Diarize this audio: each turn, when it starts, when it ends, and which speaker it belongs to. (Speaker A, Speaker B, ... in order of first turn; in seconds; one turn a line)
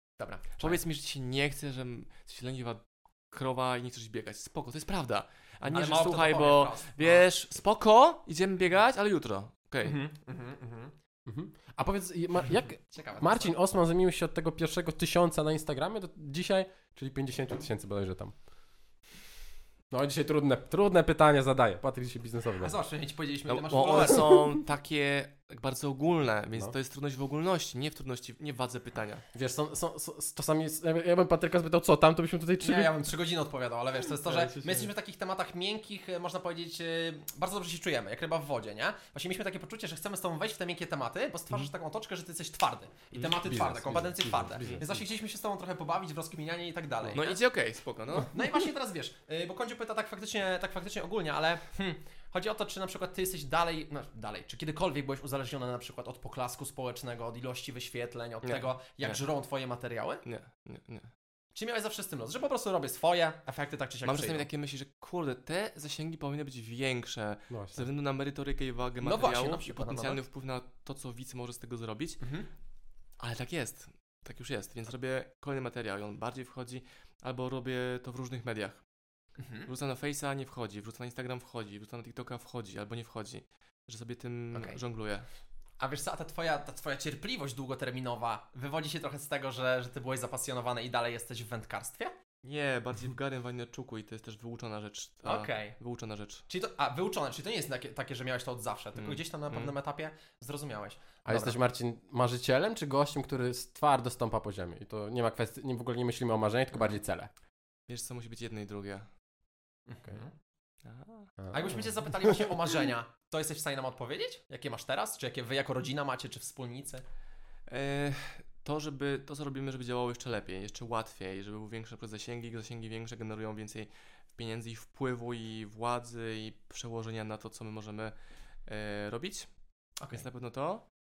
Speaker A: 0.2-0.8
Speaker B: 0.6-10.0
Speaker A: 5.7-7.3
Speaker A: 9.8-10.9
Speaker C: 11.3-18.4
Speaker A: 12.8-13.5
Speaker C: 19.9-22.8
Speaker A: 22.6-24.5
Speaker B: 23.5-29.2
Speaker C: 29.3-33.0
Speaker A: 32.6-47.4
Speaker C: 43.4-45.0
Speaker B: 47.1-48.5
Speaker A: 48.2-60.2
Speaker B: 58.4-59.2
Speaker B: 60.2-61.1
Speaker A: 61.5-64.5
Speaker B: 64.0-72.2
Speaker C: 67.5-67.8
Speaker A: 69.0-70.2
Speaker A: 72.2-72.5
Speaker B: 73.2-78.8
Speaker A: 79.4-79.7
Speaker B: 79.7-85.3
Speaker A: 84.5-84.8
Speaker A: 85.8-92.2
Speaker B: 92.4-96.4
Speaker A: 95.2-95.8
Speaker A: 96.5-101.6
Speaker B: 99.0-99.7
Speaker C: 101.3-107.3
Speaker B: 107.9-109.1
Speaker A: 109.9-110.3
Speaker B: 110.8-111.3
Speaker C: 111.4-112.3
Speaker A: 111.5-117.0
Speaker B: 117.7-128.1
Speaker B: 128.7-129.5
Speaker A: 130.0-130.3
Speaker B: 130.1-130.9